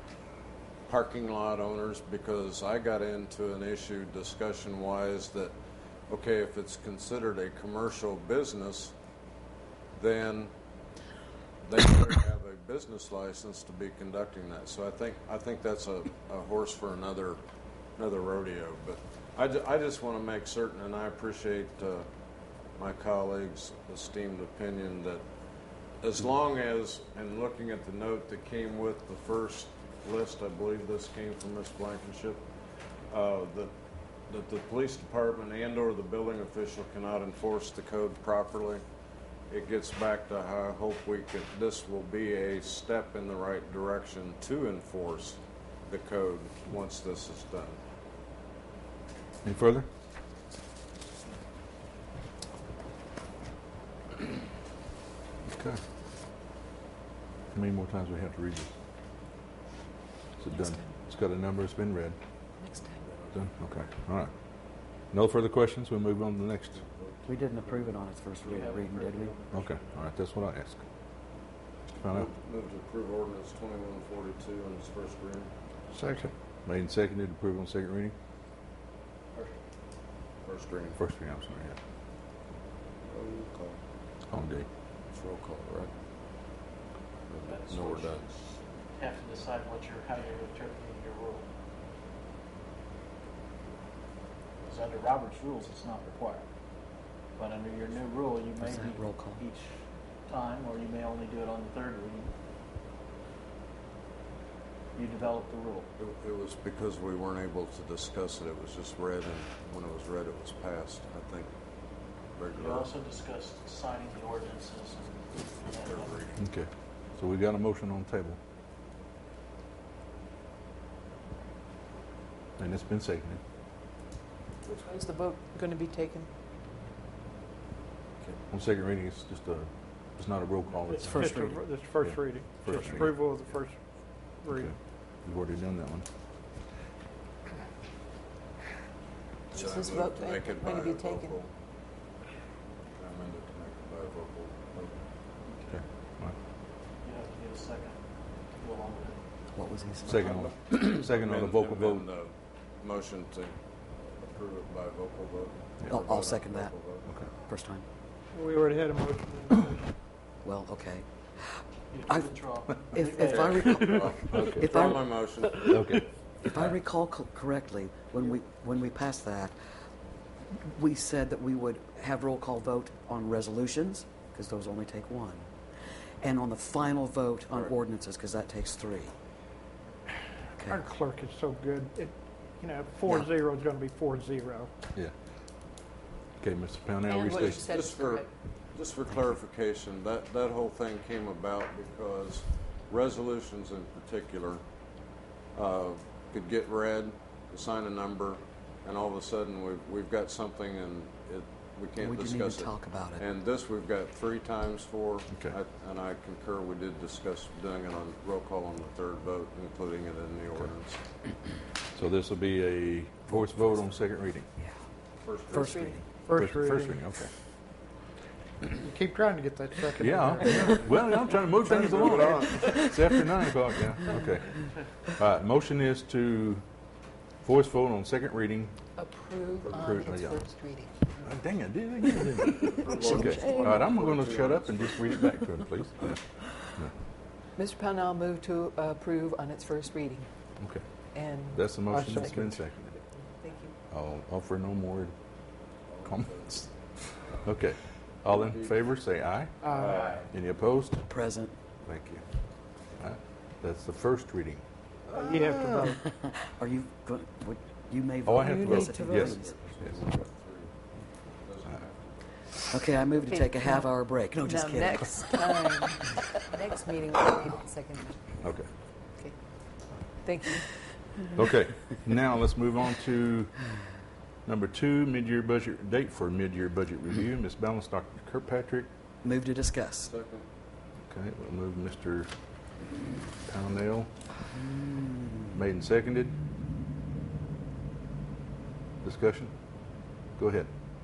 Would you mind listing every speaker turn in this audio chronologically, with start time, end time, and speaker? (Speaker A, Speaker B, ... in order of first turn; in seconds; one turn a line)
Speaker A: 0.9-5.5
Speaker A: 6.1-8.9
Speaker A: 9.9-10.5
Speaker A: 11.6-17.4
Speaker A: 18.0-22.1
Speaker A: 22.8-25.3
Speaker A: 26.0-32.5
Speaker A: 33.1-33.7
Speaker A: 34.3-38.8
Speaker A: 39.5-47.8
Speaker B: 49.5-49.9
Speaker B: 55.5-55.8
Speaker B: 57.5-58.7
Speaker B: 60.4-62.2
Speaker C: 60.5-61.0
Speaker C: 62.6-63.0
Speaker A: 63.1-63.4
Speaker B: 63.3-64.3
Speaker B: 65.1-66.8
Speaker A: 66.7-67.8
Speaker D: 67.3-69.3
Speaker E: 68.4-69.9
Speaker B: 69.5-70.8
Speaker A: 72.0-75.5
Speaker B: 72.0-72.3
Speaker F: 75.9-76.3
Speaker B: 76.7-78.2
Speaker A: 80.4-81.0
Speaker B: 81.0-81.8
Speaker A: 83.1-83.8
Speaker B: 84.3-84.7
Speaker A: 85.1-85.9
Speaker A: 87.3-88.2
Speaker E: 87.5-91.5
Speaker E: 94.6-96.5
Speaker E: 97.4-102.3
Speaker D: 98.6-99.4
Speaker E: 105.0-105.9
Speaker A: 106.0-111.5
Speaker A: 112.3-112.9
Speaker E: 112.5-116.2
Speaker A: 115.8-116.4
Speaker B: 116.4-118.4
Speaker B: 122.6-123.4
Speaker A: 124.7-124.9
Speaker C: 124.8-126.3
Speaker B: 128.5-131.4
Speaker D: 131.0-131.6
Speaker F: 131.0-134.7
Speaker B: 132.0-133.2
Speaker B: 135.2-136.1
Speaker C: 139.5-141.4
Speaker A: 139.5-141.5
Speaker A: 143.0-145.0
Speaker E: 145.5-145.8
Speaker B: 145.7-146.3
Speaker E: 147.0-149.2
Speaker D: 149.5-150.2
Speaker A: 150.1-153.6
Speaker B: 150.1-152.1
Speaker A: 154.1-157.1
Speaker D: 155.9-156.7
Speaker D: 157.4-157.8
Speaker F: 158.3-159.9
Speaker D: 160.4-161.1
Speaker E: 161.9-163.8
Speaker D: 162.1-162.4
Speaker D: 162.9-165.0
Speaker A: 163.2-166.0
Speaker B: 164.2-164.7
Speaker B: 165.6-166.7
Speaker D: 166.4-169.6
Speaker D: 170.6-175.5
Speaker D: 176.2-179.1
Speaker F: 180.7-184.7
Speaker B: 186.4-187.7
Speaker C: 187.1-188.3
Speaker A: 187.4-194.6
Speaker A: 195.6-211.0
Speaker D: 202.0-203.2
Speaker B: 211.9-214.5
Speaker A: 213.3-214.0
Speaker A: 215.2-215.9
Speaker D: 215.5-216.1
Speaker C: 215.6-216.0
Speaker F: 216.2-217.0
Speaker B: 216.3-217.3
Speaker F: 218.7-220.9
Speaker B: 220.0-226.6
Speaker A: 221.7-222.5
Speaker B: 227.4-228.7
Speaker C: 229.0-231.0
Speaker B: 229.7-230.4
Speaker B: 231.2-236.2
Speaker A: 232.6-235.2
Speaker C: 233.0-233.8
Speaker C: 237.6-240.3
Speaker C: 241.1-242.4
Speaker B: 241.5-242.9
Speaker F: 241.9-242.7
Speaker C: 243.4-243.7
Speaker B: 243.9-245.2
Speaker A: 245.9-246.7
Speaker B: 246.1-246.7
Speaker A: 247.2-247.6
Speaker B: 247.4-249.6
Speaker A: 248.3-248.8
Speaker F: 249.6-250.1
Speaker A: 249.7-250.3
Speaker B: 250.3-251.1
Speaker D: 251.1-251.5
Speaker B: 251.9-252.2
Speaker B: 253.0-254.6
Speaker F: 255.1-256.0
Speaker D: 255.1-259.6
Speaker B: 258.2-259.4
Speaker C: 258.4-259.4
Speaker A: 259.4-260.7
Speaker A: 261.3-262.2
Speaker D: 262.7-265.4
Speaker C: 263.2-268.4
Speaker B: 268.4-268.7
Speaker C: 270.2-270.7
Speaker B: 271.3-273.5
Speaker B: 274.5-278.9
Speaker D: 279.2-280.1
Speaker A: 280.0-280.5
Speaker B: 281.1-282.3
Speaker B: 283.5-284.1
Speaker D: 284.5-285.6
Speaker B: 285.5-286.3
Speaker B: 289.0-289.5
Speaker B: 290.4-290.7